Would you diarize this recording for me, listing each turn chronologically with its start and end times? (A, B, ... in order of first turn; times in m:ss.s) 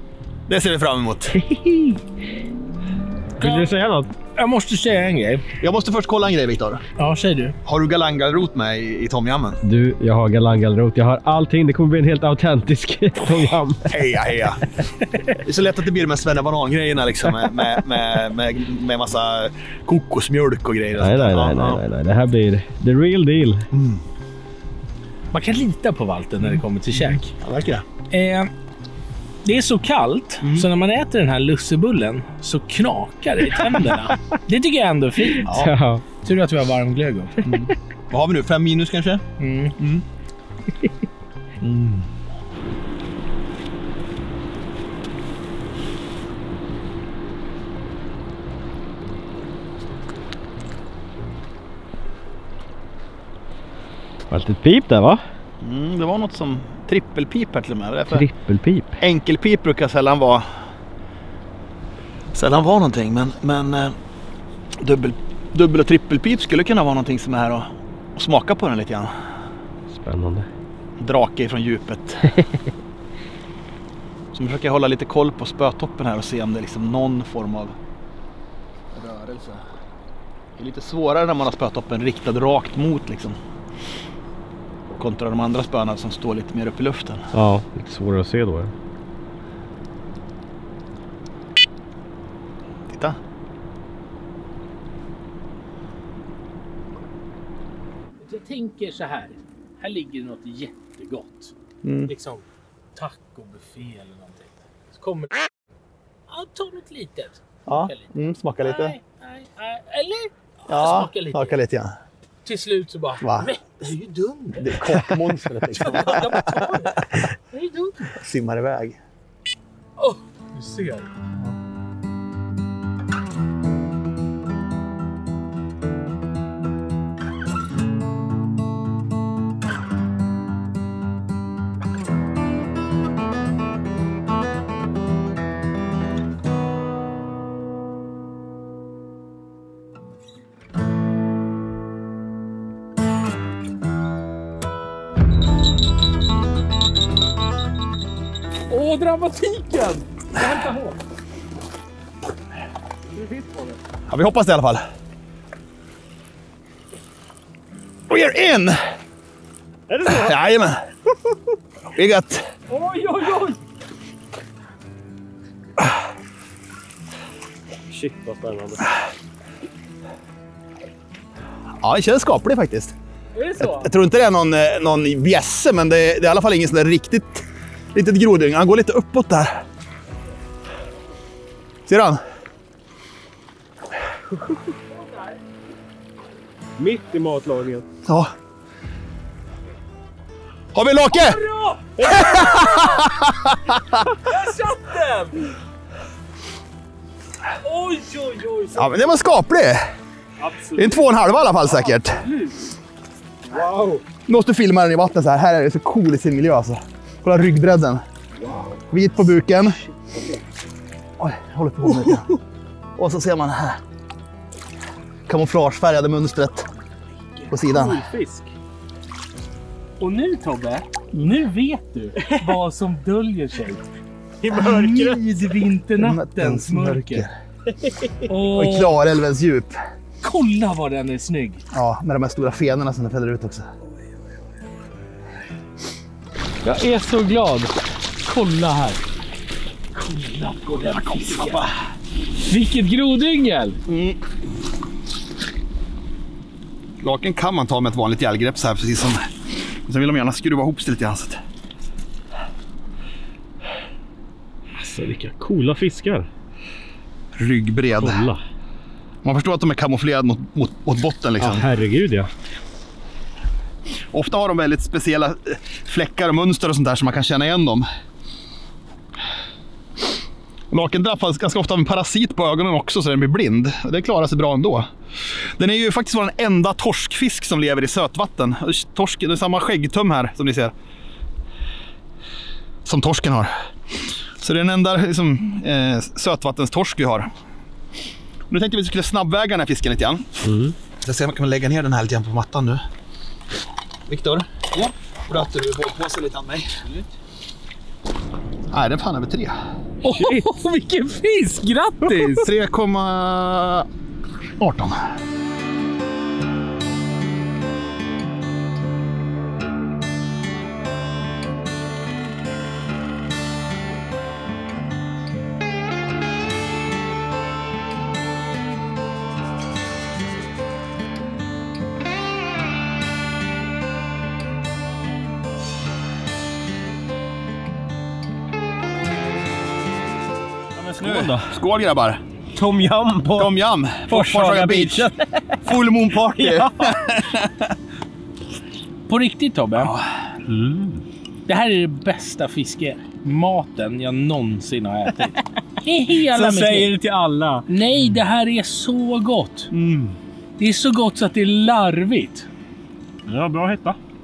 0:00.5-0:01.4 A
0:01.3-0:02.0 B
0:03.4-0:03.7 C
0:03.4-0:04.1 B
0:04.3-0:05.4 C
0:05.6-0:06.8 A
0:07.0-0:07.5 C
0:07.6-0:09.6 A
0:09.6-0:14.0 B
0:13.9-0:14.6 A
0:15.4-0:21.8 A
0:21.0-0:23.6 B
0:23.7-0:24.0 A
0:25.3-0:27.3 C
0:26.9-0:27.8 A
0:28.1-0:28.5 C
0:29.4-0:35.6 C
0:30.4-0:30.6 A
0:35.4-0:35.7 A
0:35.4-0:36.0 B
0:36.2-0:37.4 C
0:37.4-0:39.2 A
0:39.4-0:39.8 C
0:39.8-0:40.0 A
0:41.6-0:42.1 A
0:54.3-0:55.2 B
0:55.6-0:58.2 A
0:58.1-0:59.0 B
0:59.0-1:00.5 A
1:02.3-1:03.9 A
1:04.8-1:09.1 A
1:09.9-1:10.5 B
1:11.0-1:12.4 A
1:14.3-1:17.7 A
1:18.9-1:19.6 A
1:20.6-1:23.4 A
1:24.9-1:27.3 A
1:27.3-1:28.7 B
1:32.9-1:33.2 A
1:38.2-1:41.5 C
1:41.8-1:42.1 A
1:42.0-1:45.5 C
1:46.3-1:51.6 C
1:47.7-1:49.0 A
1:50.7-1:51.9 A
1:52.4-1:58.2 C
1:53.2-1:53.5 A
1:54.6-1:56.9 A
1:58.2-1:59.0 A
2:00.0-2:01.1 C
2:28.7-2:31.0 C
2:33.2-2:33.5 B
2:34.1-2:34.8 A
2:38.1-2:38.8 A
2:39.9-2:40.4 B
2:40.0-2:40.8 A
2:41.9-2:42.4 A
2:42.7-2:43.6 C
2:47.9-2:48.9 B
2:51.8-2:52.9 A
2:53.3-2:53.9 C
2:53.6-2:59.6 A
3:01.9-3:02.2 A
3:06.8-3:07.8 B
3:08.0-3:08.3 A
3:10.7-3:11.4 A
3:11.1-3:13.1 C
3:12.0-3:12.8 B
3:12.0-3:13.9 A
3:14.0-3:15.5 C
3:17.6-3:19.2 C
3:18.7-3:19.8 A
3:20.4-3:21.0 C
3:20.7-3:22.2 A
3:21.6-3:22.7 C
3:23.5-3:24.0 B
3:24.2-3:28.0 A
3:28.9-3:29.8 A
3:31.2-3:32.3 A
3:33.0-3:33.8 A
3:35.3-3:36.7 A
3:37.5-3:38.0 A
3:37.5-3:38.5 B
3:40.0-3:43.8 C
3:42.2-3:42.5 B
3:44.4-3:45.2 B
3:44.5-3:47.3 C
3:46.0-3:47.3 A
3:47.7-3:48.3 B
3:48.3-3:49.0 C
3:48.5-3:49.8 A
3:50.2-3:51.6 C
3:51.7-3:53.7 A
3:56.6-3:57.7 C
3:58.2-3:59.0 C
3:59.9-4:01.7 C
4:00.7-4:01.7 A
4:02.5-4:03.8 C
4:03.9-4:04.2 A
4:07.0-4:09.3 A
4:09.8-4:11.4 A
4:14.8-4:16.3 B
4:17.4-4:18.2 A
4:18.0-4:18.4 B
4:19.2-4:21.7 A
4:21.4-4:22.3 B
4:24.1-4:27.8 A
4:30.7-4:40.7 A
4:42.8-4:43.5 A
4:44.4-4:47.3 A
4:48.5-4:50.4 A
4:50.4-4:50.7 B
4:51.0-4:52.8 A
4:54.1-4:54.5 A
4:55.3-4:56.9 A
4:58.7-4:59.5 A
5:00.0-5:02.5 C
5:02.0-5:03.9 A
5:04.6-5:05.0 A
5:30.8-5:31.5 B
5:31.0-5:32.2 A
5:32.5-5:33.5 B
5:33.4-5:35.1 A
5:34.1-5:35.6 B
5:35.6-5:37.7 A
5:36.4-5:37.0 B
5:39.0-5:39.9 C
5:39.7-5:40.1 A
5:40.4-5:41.0 B
5:41.5-5:46.9 C
5:46.3-5:47.6 B
5:47.7-5:49.7 C
5:49.7-5:50.2 A
5:50.6-5:52.5 C
5:53.3-5:54.0 B